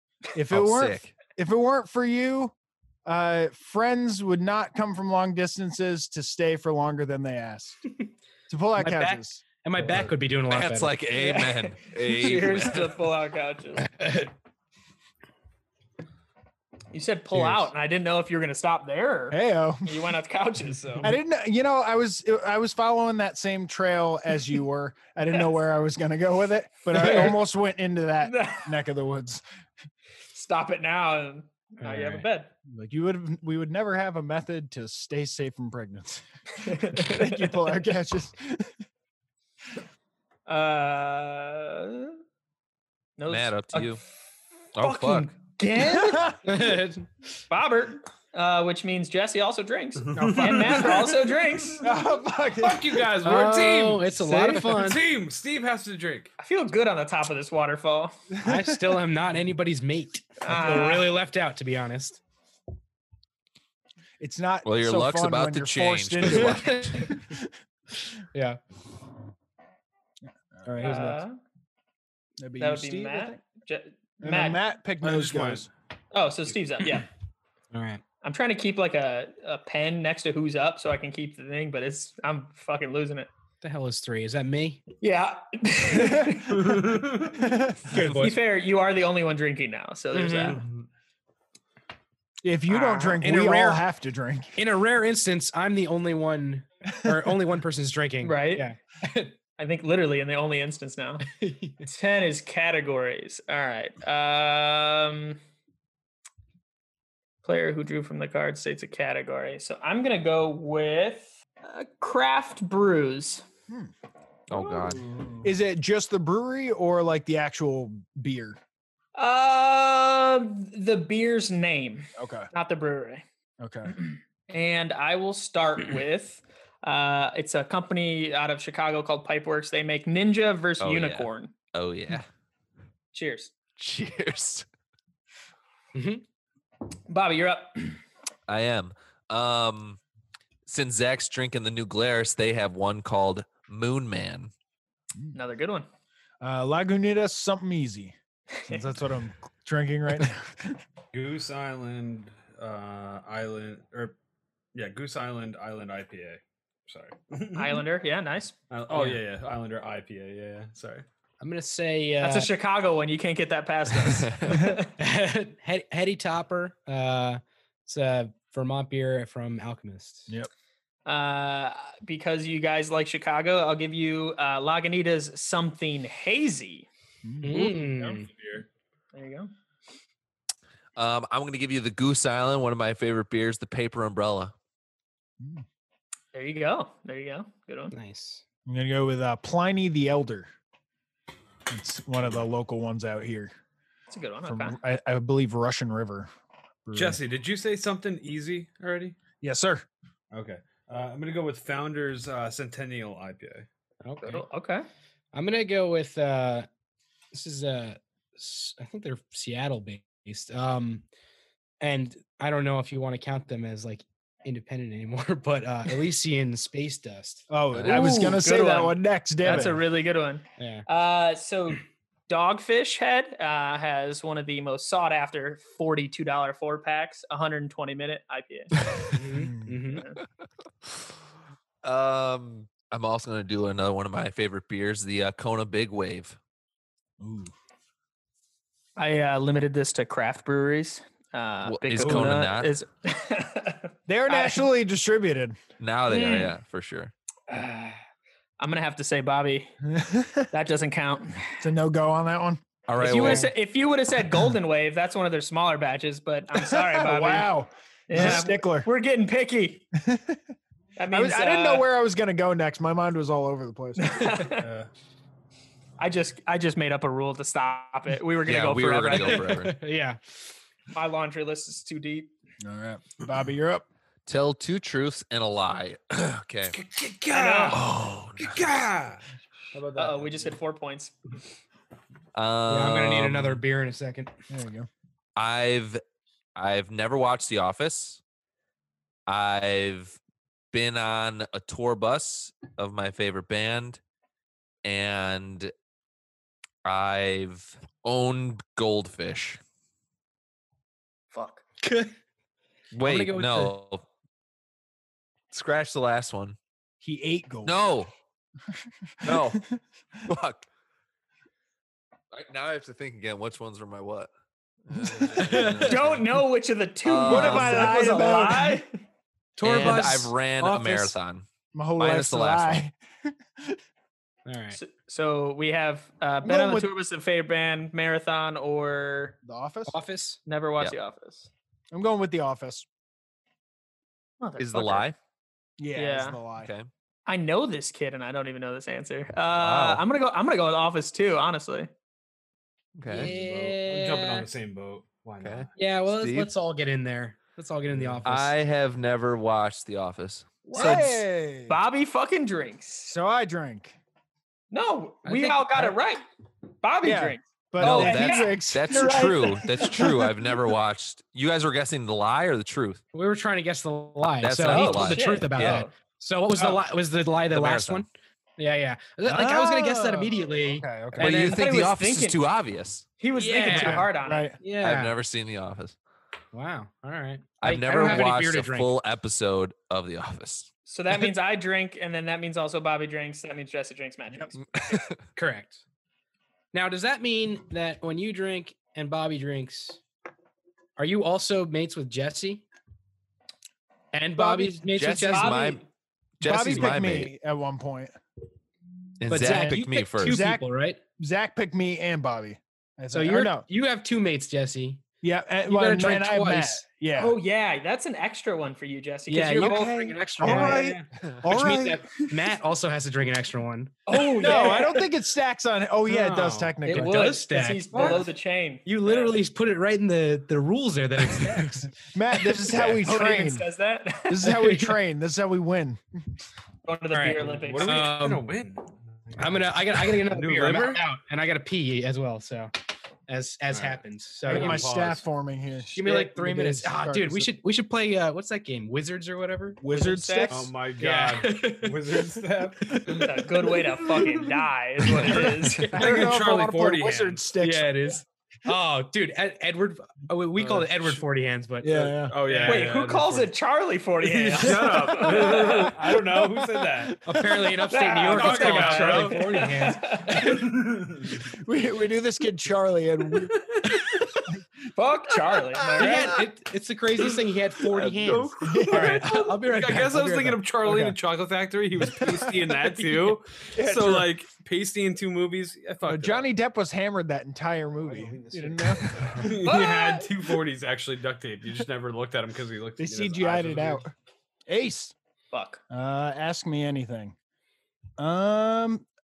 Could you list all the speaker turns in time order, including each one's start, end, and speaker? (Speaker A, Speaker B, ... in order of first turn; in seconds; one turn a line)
Speaker A: 0.3-2.5
Speaker B: 0.5-1.1
Speaker A: 3.0-7.8
Speaker A: 8.5-9.4
Speaker C: 8.8-10.9
Speaker D: 9.8-10.1
Speaker B: 10.5-13.0
Speaker E: 11.1-13.9
Speaker C: 13.9-14.3
Speaker E: 16.9-21.0
Speaker C: 17.3-17.7
Speaker A: 19.3-20.0
Speaker A: 21.0-29.4
Speaker E: 27.0-27.3
Speaker E: 28.2-28.7
Speaker E: 30.3-32.5
Speaker C: 31.8-32.2
Speaker A: 32.7-38.7
Speaker E: 36.6-37.7
Speaker E: 40.5-42.2
Speaker E: 43.2-44.0
Speaker B: 43.3-44.0
Speaker B: 44.8-45.3
Speaker E: 44.8-46.4
Speaker A: 45.8-46.3
Speaker C: 46.4-47.1
Speaker E: 47.5-51.9
Speaker D: 50.0-51.8
Speaker A: 51.8-53.1
Speaker D: 52.6-56.3
Speaker C: 53.2-55.0
Speaker E: 56.4-58.1
Speaker A: 58.3-59.0
Speaker C: 58.4-62.2
Speaker E: 60.4-61.1
Speaker A: 64.2-67.5
Speaker B: 64.6-67.2
Speaker C: 68.3-68.6
Speaker A: 70.5-71.0
Speaker C: 70.6-71.2
Speaker E: 70.8-71.4
Speaker A: 72.4-73.4
Speaker E: 72.6-74.6
Speaker A: 74.2-75.7
Speaker D: 75.0-75.7
Speaker E: 76.1-77.0
Speaker C: 77.7-78.0
Speaker E: 78.2-83.3
Speaker C: 83.6-84.8
Speaker E: 85.0-86.8
Speaker A: 85.9-86.3
Speaker D: 86.5-87.4
Speaker A: 87.4-88.1
Speaker C: 87.9-88.4
Speaker E: 88.1-90.6
Speaker C: 90.1-90.6
Speaker A: 92.4-94.5
Speaker E: 92.7-93.2
Speaker C: 93.2-93.8
Speaker C: 94.6-99.3
Speaker A: 97.0-97.4
Speaker E: 98.2-98.7
Speaker E: 99.6-101.2
Speaker C: 101.2-101.9
Speaker E: 101.8-105.4
Speaker E: 107.4-113.4
Speaker B: 114.5-115.0
Speaker A: 114.9-118.6
Speaker E: 119.2-123.2
Speaker A: 122.2-122.5
Speaker A: 123.6-123.9
Speaker E: 123.9-131.5
Speaker B: 130.8-132.2
Speaker E: 133.1-133.5
Speaker B: 133.8-134.7
Speaker C: 135.9-136.2
Speaker E: 137.1-138.0
Speaker B: 138.5-140.0
Speaker B: 140.7-144.5
Speaker E: 145.3-145.9
Speaker A: 146.4-148.2
Speaker E: 148.6-148.8
Speaker A: 148.7-150.8
Speaker D: 151.1-154.1
Speaker D: 154.7-157.8
Speaker E: 157.6-158.5
Speaker D: 158.7-161.0
Speaker C: 158.9-159.2
Speaker C: 161.4-162.5
Speaker E: 162.2-164.9
Speaker B: 164.0-164.6
Speaker C: 165.0-170.3
Speaker E: 171.1-176.8
Speaker A: 177.2-177.6
Speaker C: 177.4-178.3
Speaker D: 177.6-178.6
Speaker E: 179.1-179.5
Speaker B: 180.9-184.5
Speaker A: 185.4-185.6
Speaker E: 186.3-187.9
Speaker C: 187.9-188.4
Speaker A: 188.7-190.5
Speaker A: 191.7-193.5
Speaker E: 194.1-194.8
Speaker A: 194.4-196.3
Speaker A: 196.8-197.2
Speaker D: 196.9-199.2
Speaker A: 199.4-199.8
Speaker D: 200.3-203.7
Speaker C: 204.0-204.4
Speaker E: 204.2-204.9
Speaker C: 205.3-206.7
Speaker C: 207.3-211.0
Speaker C: 211.8-217.5
Speaker A: 217.5-219.8
Speaker E: 217.8-228.7
Speaker C: 220.6-220.8
Speaker C: 229.1-230.0
Speaker A: 229.3-229.8
Speaker E: 229.9-230.2
Speaker B: 231.8-236.4
Speaker A: 237.2-237.5
Speaker E: 239.0-244.7
Speaker B: 241.6-242.7
Speaker A: 244.1-245.6
Speaker B: 245.8-247.1
Speaker E: 246.1-246.5
Speaker E: 247.5-248.0
Speaker E: 248.6-249.7
Speaker A: 249.8-250.5
Speaker E: 250.5-251.6
Speaker A: 251.6-253.5
Speaker B: 252.9-253.5
Speaker E: 253.0-257.5
Speaker A: 256.5-258.9
Speaker E: 258.1-259.8
Speaker A: 260.0-260.4
Speaker E: 261.0-261.9
Speaker A: 261.1-264.2
Speaker E: 264.0-264.7
Speaker D: 264.6-264.9
Speaker E: 266.0-269.5
Speaker B: 268.4-269.8
Speaker C: 269.1-270.2
Speaker E: 270.9-272.3
Speaker A: 272.6-273.9
Speaker B: 274.3-276.8
Speaker D: 276.9-277.7
Speaker E: 277.3-277.8
Speaker B: 277.7-278.6
Speaker C: 278.7-279.2
Speaker D: 279.7-280.6
Speaker E: 279.9-281.1
Speaker B: 282.3-283.6
Speaker C: 282.7-284.3
Speaker A: 284.5-284.9
Speaker B: 285.4-286.0
Speaker B: 286.6-288.2
Speaker B: 289.3-290.2
Speaker B: 290.7-294.0
Speaker B: 294.8-295.7
Speaker B: 296.8-299.6
Speaker E: 301.3-301.6
Speaker C: 301.8-302.1
Speaker B: 302.9-304.0
Speaker C: 303.0-303.8
Speaker B: 305.5-306.6
Speaker A: 307.0-307.8
Speaker B: 307.6-308.1
Speaker A: 309.2-309.8
Speaker B: 309.2-309.6
Speaker B: 310.2-310.6
Speaker B: 312.3-314.3
Speaker B: 314.9-316.2
Speaker C: 315.4-315.9
Speaker E: 315.8-318.9
Speaker B: 317.0-318.1
Speaker A: 317.2-318.8
Speaker C: 319.6-321.1
Speaker B: 319.6-321.4
Speaker A: 321.7-323.8
Speaker B: 322.0-322.8
Speaker C: 324.5-324.8
Speaker E: 324.8-329.4
Speaker A: 326.4-326.9
Speaker A: 329.4-329.9
Speaker C: 329.9-330.4
Speaker E: 330.4-331.5
Speaker A: 331.9-332.9
Speaker E: 334.4-335.1
Speaker B: 334.6-335.1
Speaker A: 335.8-336.7
Speaker E: 335.9-336.4
Speaker B: 336.6-336.9
Speaker E: 337.3-341.9
Speaker B: 339.6-340.0
Speaker B: 342.9-343.3
Speaker C: 343.1-344.5
Speaker D: 343.1-345.7
Speaker B: 345.4-346.5
Speaker C: 345.8-348.5
Speaker D: 347.9-348.2
Speaker B: 348.2-351.1
Speaker A: 350.7-351.8
Speaker E: 350.7-351.1
Speaker E: 351.7-353.1
Speaker A: 353.1-354.0
Speaker E: 354.7-356.2
Speaker C: 355.2-355.9
Speaker E: 356.8-359.8
Speaker A: 357.0-360.4
Speaker B: 357.8-363.0
Speaker C: 363.1-371.6
Speaker B: 364.4-365.9
Speaker E: 364.7-365.9
Speaker B: 367.5-368.0
Speaker A: 369.2-371.4
Speaker B: 371.2-373.0
Speaker E: 371.2-372.4
Speaker E: 373.2-374.5
Speaker C: 373.3-374.1
Speaker A: 373.7-374.6
Speaker C: 374.6-375.1
Speaker B: 374.8-375.9
Speaker C: 376.5-378.9
Speaker B: 377.6-380.7
Speaker E: 380.9-384.6
Speaker B: 384.8-385.1
Speaker C: 385.3-385.8
Speaker C: 386.7-390.0
Speaker C: 391.0-392.6
Speaker C: 394.1-395.6
Speaker E: 394.4-395.9
Speaker B: 394.9-395.8
Speaker B: 396.4-397.3
Speaker A: 396.4-398.1
Speaker B: 399.2-400.4
Speaker C: 399.3-401.0
Speaker A: 399.4-400.6
Speaker A: 401.2-403.6
Speaker C: 403.1-405.0
Speaker A: 405.2-407.4
Speaker C: 405.6-406.8
Speaker E: 407.2-410.6
Speaker C: 409.3-413.9
Speaker A: 409.6-412.4
Speaker D: 410.5-411.0
Speaker E: 414.1-415.1
Speaker A: 414.1-417.3
Speaker D: 416.1-416.8
Speaker C: 416.9-418.2
Speaker E: 416.9-419.4
Speaker C: 418.9-421.9
Speaker A: 421.9-423.7
Speaker E: 422.6-424.5
Speaker A: 424.3-426.0
Speaker C: 424.4-425.0
Speaker E: 426.8-428.1
Speaker C: 427.1-428.5
Speaker D: 427.4-431.0
Speaker C: 429.4-432.7
Speaker C: 433.3-434.9
Speaker D: 433.7-435.2
Speaker A: 434.5-437.5
Speaker C: 435.9-439.8
Speaker A: 439.8-440.7
Speaker E: 439.9-440.5
Speaker D: 440.5-443.3
Speaker C: 441.0-442.2
Speaker E: 443.2-446.3
Speaker C: 445.3-446.0
Speaker A: 445.9-448.1
Speaker D: 445.9-447.4
Speaker C: 447.6-452.8
Speaker D: 450.6-451.2
Speaker A: 451.8-452.4
Speaker D: 452.2-453.5
Speaker E: 452.6-455.9
Speaker D: 454.2-457.2
Speaker A: 455.4-457.7
Speaker C: 457.2-460.1
Speaker E: 457.9-460.5
Speaker D: 458.3-459.7
Speaker D: 460.4-461.5
Speaker A: 461.5-463.9
Speaker D: 463.5-464.2
Speaker E: 464.9-466.4
Speaker C: 466.0-470.6
Speaker D: 467.9-476.5
Speaker A: 468.6-469.3
Speaker A: 470.8-471.1
Speaker A: 472.1-472.9
Speaker A: 473.7-474.3
Speaker A: 476.1-479.4
Speaker D: 478.1-484.0
Speaker E: 479.6-480.3
Speaker A: 483.0-484.1
Speaker A: 484.7-485.1
Speaker E: 485.5-485.8
Speaker A: 485.9-487.3
Speaker A: 488.2-489.0